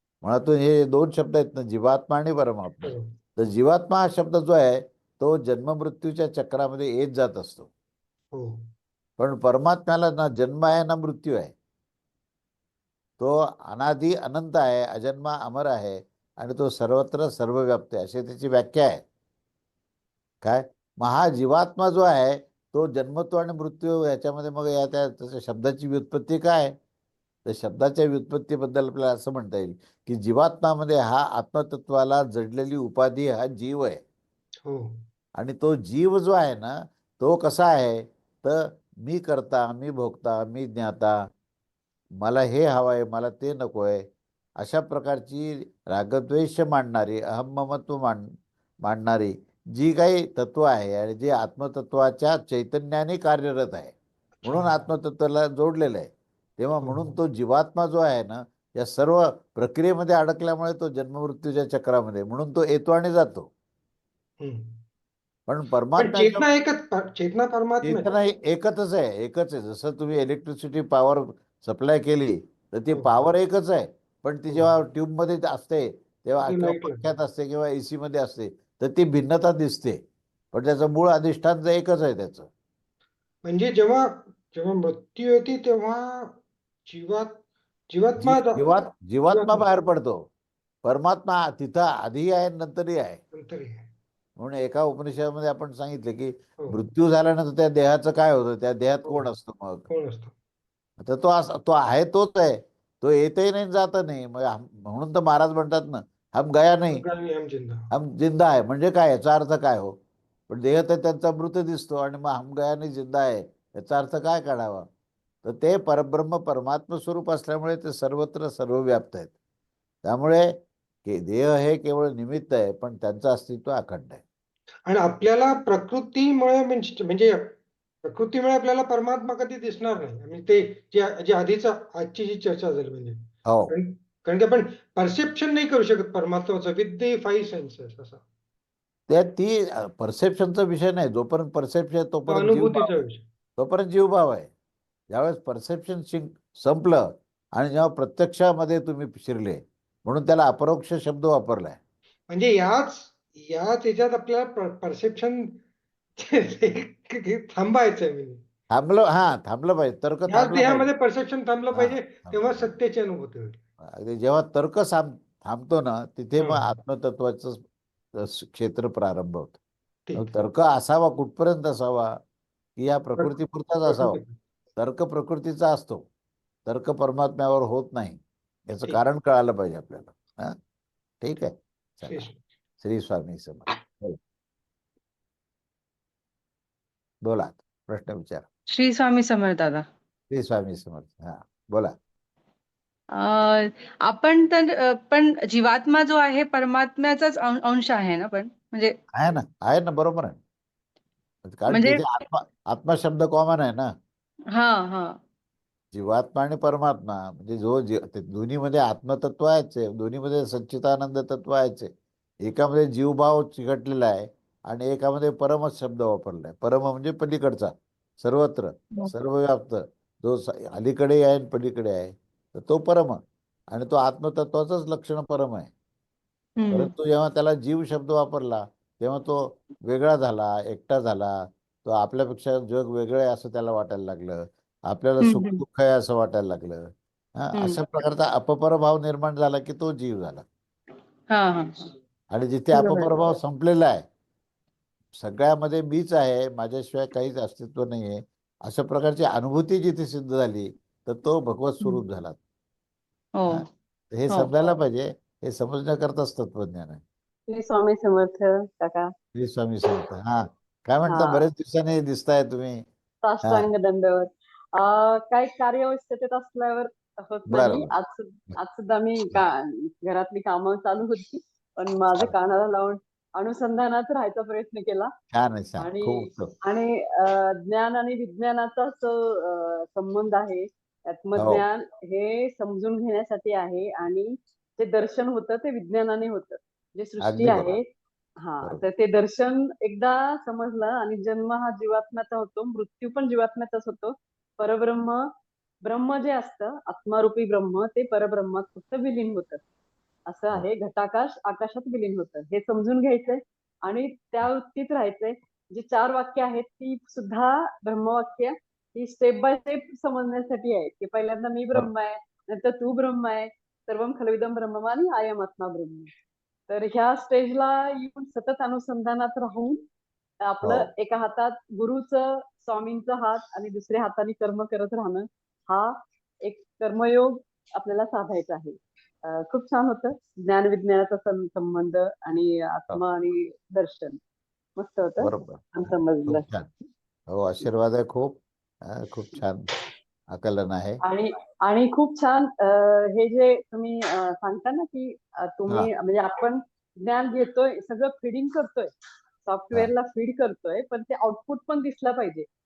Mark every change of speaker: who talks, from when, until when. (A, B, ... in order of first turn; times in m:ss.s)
0:00.2-0:07.7 A
0:02.8-0:03.1 B
0:08.3-0:08.6 B
0:09.2-0:11.5 A
0:13.2-0:19.0 A
0:20.4-0:26.7 A
0:27.4-0:34.0 A
0:34.6-0:35.0 B
0:35.4-0:41.1 A
0:42.2-0:44.0 A
0:44.6-0:48.3 A
0:48.8-1:03.5 A
0:54.4-0:54.8 B
0:56.8-0:57.1 B
1:04.4-1:04.8 B
1:05.5-1:06.4 A
1:06.0-1:08.1 B
1:07.8-1:20.0 A
1:16.4-1:17.0 B
1:20.5-1:22.5 A
1:23.4-1:29.7 B
1:28.2-1:30.2 A
1:30.8-1:33.2 A
1:33.3-1:33.9 B
1:34.4-1:39.9 A
1:39.0-1:39.3 B
1:39.9-1:40.3 B
1:41.0-1:47.0 A
1:46.9-1:47.8 B
1:47.9-1:50.0 A
1:50.5-1:54.8 A
1:55.4-1:59.3 A
2:00.0-2:00.5 A
2:01.0-2:04.2 A
2:04.8-2:18.2 B
2:13.4-2:13.7 A
2:19.1-2:23.0 A
2:22.3-2:23.2 B
2:23.6-2:24.5 A
2:25.1-2:31.8 A
2:32.3-2:35.6 B
2:36.2-2:38.4 B
2:38.7-2:40.9 A
2:40.3-2:43.6 B
2:41.7-2:42.7 A
2:43.8-2:47.6 A
2:46.4-2:46.7 B
2:48.2-2:49.6 A
2:50.1-2:50.4 B
2:50.1-2:52.2 A
2:52.8-2:54.2 A
2:53.2-2:54.3 B
2:54.8-2:56.0 A
2:56.6-3:00.6 A
3:01.2-3:02.2 A
3:02.1-3:02.4 B
3:02.8-3:04.2 A
3:07.2-3:08.4 A
3:08.7-3:09.8 C
3:10.3-3:11.9 A
3:13.3-3:18.9 C
3:19.1-3:20.4 A
3:21.4-3:23.9 A
3:21.7-3:22.0 C
3:24.6-3:25.0 C
3:25.9-3:31.9 A
3:32.4-3:43.2 A
3:43.7-3:45.7 A
3:46.7-4:00.4 A
4:01.4-4:01.7 C
4:02.3-4:04.0 A
4:02.8-4:03.1 C
4:05.2-4:12.4 A
4:13.5-4:17.0 A
4:17.5-4:19.1 D
4:19.3-4:22.8 A
4:21.1-4:21.4 D
4:23.2-4:35.1 D
4:27.5-4:27.9 A
4:35.3-4:36.5 A
4:35.8-4:47.8 D
4:41.3-4:41.6 A
4:47.2-4:47.8 A
4:48.4-4:55.3 D
4:55.8-4:59.6 D
5:00.3-5:16.1 D
5:16.7-5:19.8 D
5:20.4-5:34.2 D
5:20.6-5:20.9 A
5:34.8-5:36.4 D
5:35.2-5:36.7 A
5:37.3-5:39.8 A
5:40.3-5:41.0 A
5:41.0-5:48.9 D
5:49.4-5:52.4 D